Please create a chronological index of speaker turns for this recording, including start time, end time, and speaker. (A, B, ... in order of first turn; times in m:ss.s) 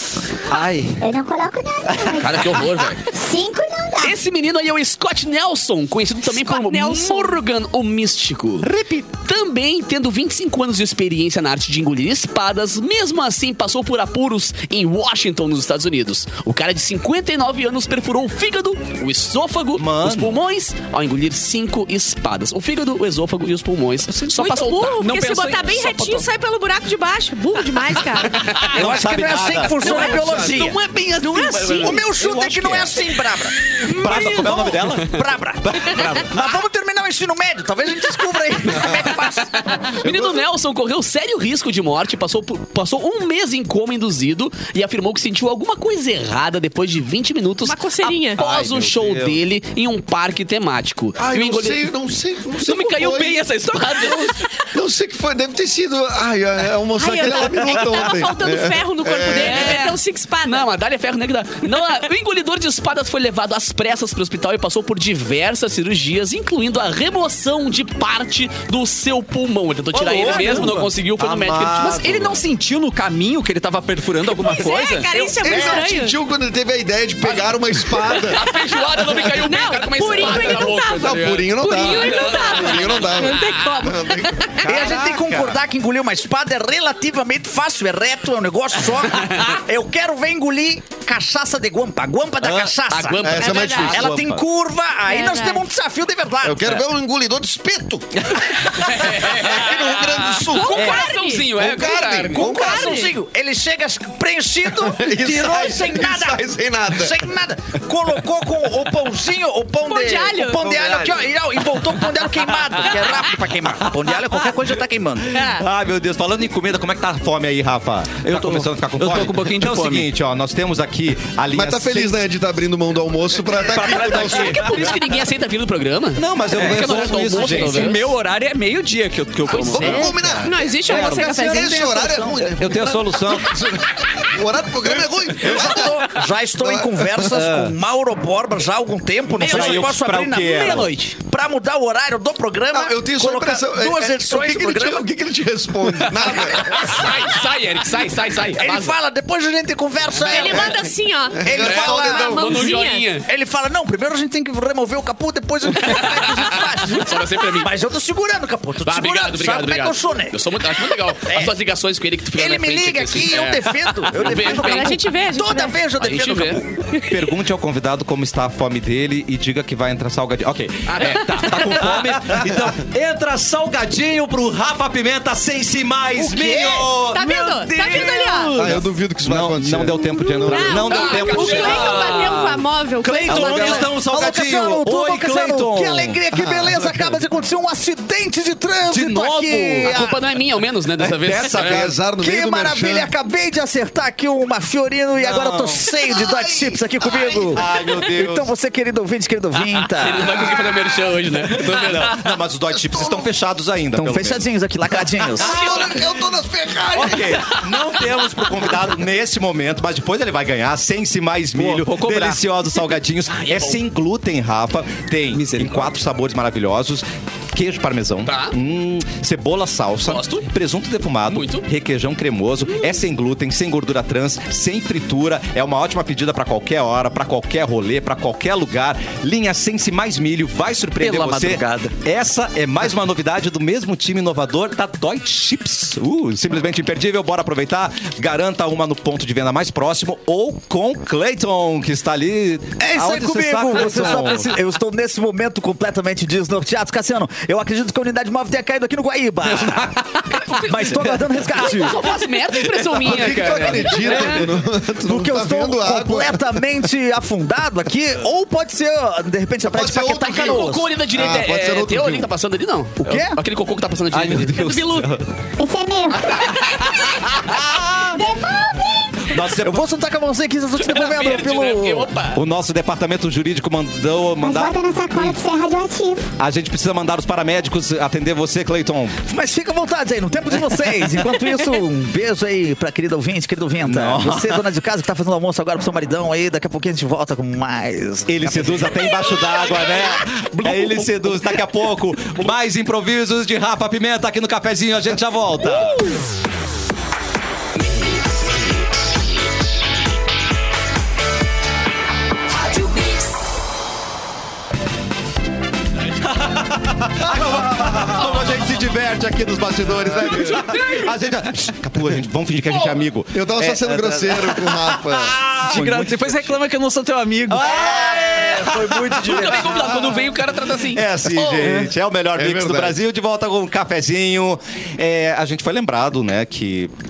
0:00.5-0:01.0 A
0:01.0-0:04.2 B
0:02.2-0:03.0 C
0:04.0-0:25.2 C
0:06.3-0:07.4 D
0:08.6-0:09.1 A
0:19.8-0:20.4 A
0:24.3-0:28.4 D
0:25.0-0:26.2 E
0:28.3-0:28.8 C
0:28.6-0:30.0 A
0:28.7-0:30.8 F
0:29.6-0:32.0 C
0:31.2-0:32.0 D
0:31.7-0:39.6 F
0:32.1-0:33.0 A
0:33.8-0:34.8 D
0:33.9-0:36.3 A
0:39.2-0:51.9 C
0:40.0-0:40.4 G
0:47.6-0:48.4 D
0:48.4-0:49.4 A
0:51.2-0:53.5 G
0:52.6-0:54.5 C
0:54.1-0:54.4 D
0:54.7-0:59.8 G
0:57.0-1:00.7 D
0:59.3-1:12.1 C
1:09.9-1:10.8 F
1:10.2-1:10.9 E
1:11.2-1:12.4 A
1:11.7-1:15.2 E
1:14.3-1:16.2 D
1:15.4-1:18.5 G
1:15.5-1:15.8 F
1:17.3-1:23.6 C
1:18.3-1:18.8 D
1:19.3-1:24.7 D
1:20.2-1:24.6 G
1:24.6-1:25.6 A
1:24.6-1:36.8 F
1:29.2-1:29.5 C
1:32.9-1:34.2 C
1:33.2-1:34.2 G
1:33.3-1:33.9 D
1:34.1-1:34.4 A
1:35.1-1:35.6 D
1:36.4-1:43.0 G
1:38.2-1:42.5 C
1:40.5-1:41.5 D
1:42.2-1:55.3 F
1:42.5-1:43.1 D
1:44.8-1:47.2 G
1:49.8-1:50.6 D
1:50.6-1:51.1 A
1:52.8-1:53.3 D
1:55.3-1:55.6 D
1:55.4-2:02.2 A
1:58.2-2:00.1 E
2:01.5-2:04.7 G
2:03.6-2:05.0 A
2:03.8-2:08.1 C
2:06.2-2:08.0 A
2:06.5-2:10.2 E
2:09.5-2:10.2 C
2:09.7-2:17.4 G
2:09.8-2:12.0 D
2:10.2-2:13.6 A
2:11.0-2:12.5 F
2:15.4-2:25.1 F
2:17.3-2:17.7 A
2:19.4-2:21.0 A
2:19.4-2:21.1 C
2:22.7-2:27.0 G
2:26.2-2:29.0 C
2:28.5-2:30.9 F
2:30.2-2:33.1 D
2:30.4-2:32.6 G
2:31.4-2:32.7 F
2:31.6-2:33.3 C
2:33.2-2:41.5 F
2:35.8-2:37.8 C
2:38.8-2:45.0 C
2:42.3-2:46.8 F
2:44.2-2:45.8 D
2:46.0-2:46.6 C
2:46.9-2:47.2 D
2:47.0-3:06.2 A
2:50.9-2:51.7 C
2:56.2-2:56.9 F
2:57.1-2:58.5 D
2:57.5-2:58.8 E
2:58.6-3:00.9 G
3:00.1-3:03.9 D
3:00.8-3:02.1 C
3:03.3-3:10.2 F
3:06.3-3:07.2 G
3:08.9-3:10.0 A
3:09.8-3:11.9 C
3:11.0-3:12.0 A
3:11.6-3:13.1 G
3:12.2-3:20.5 F
3:15.2-3:15.9 A
3:16.2-3:17.7 G
3:17.5-3:18.5 A
3:19.9-3:22.2 C
3:21.6-3:24.4 A
3:22.7-3:23.3 G
3:23.9-3:25.6 F
3:25.4-3:27.6 G
3:25.4-3:26.1 A
3:26.9-4:04.6 A
3:31.5-3:32.4 E
3:33.3-3:33.8 C
3:35.3-3:36.0 E
3:38.3-3:38.6 C
3:40.0-3:40.5 C
3:41.3-3:41.6 C
3:51.0-3:52.0 E
4:02.8-4:12.1 F
4:11.5-4:14.4 C
4:12.4-4:14.4 E
4:13.0-4:16.4 G
4:15.0-4:20.9 F
4:19.6-4:22.3 G
4:20.2-4:25.0 C
4:23.0-4:23.4 F
4:24.1-4:25.3 A
4:24.6-4:25.1 D
4:25.6-4:26.9 B
4:26.7-4:28.4 A
4:28.1-4:29.4 B
4:29.2-4:29.9 A
4:29.6-4:32.1 F
4:30.8-4:32.4 C
4:32.3-4:35.4 A
4:34.4-4:36.3 B
4:36.4-4:39.2 A
4:39.2-4:49.2 F
4:43.8-4:44.6 A
4:48.3-4:56.1 A
5:06.2-5:16.6 A
5:10.5-5:11.1 C
5:12.7-5:12.9 C
5:13.3-5:15.4 G
5:15.6-5:17.7 E
5:17.5-5:20.2 A
5:17.6-5:20.0 F
5:19.2-5:21.9 C
5:20.9-5:26.9 A
5:21.6-5:21.9 E
5:22.4-5:23.0 G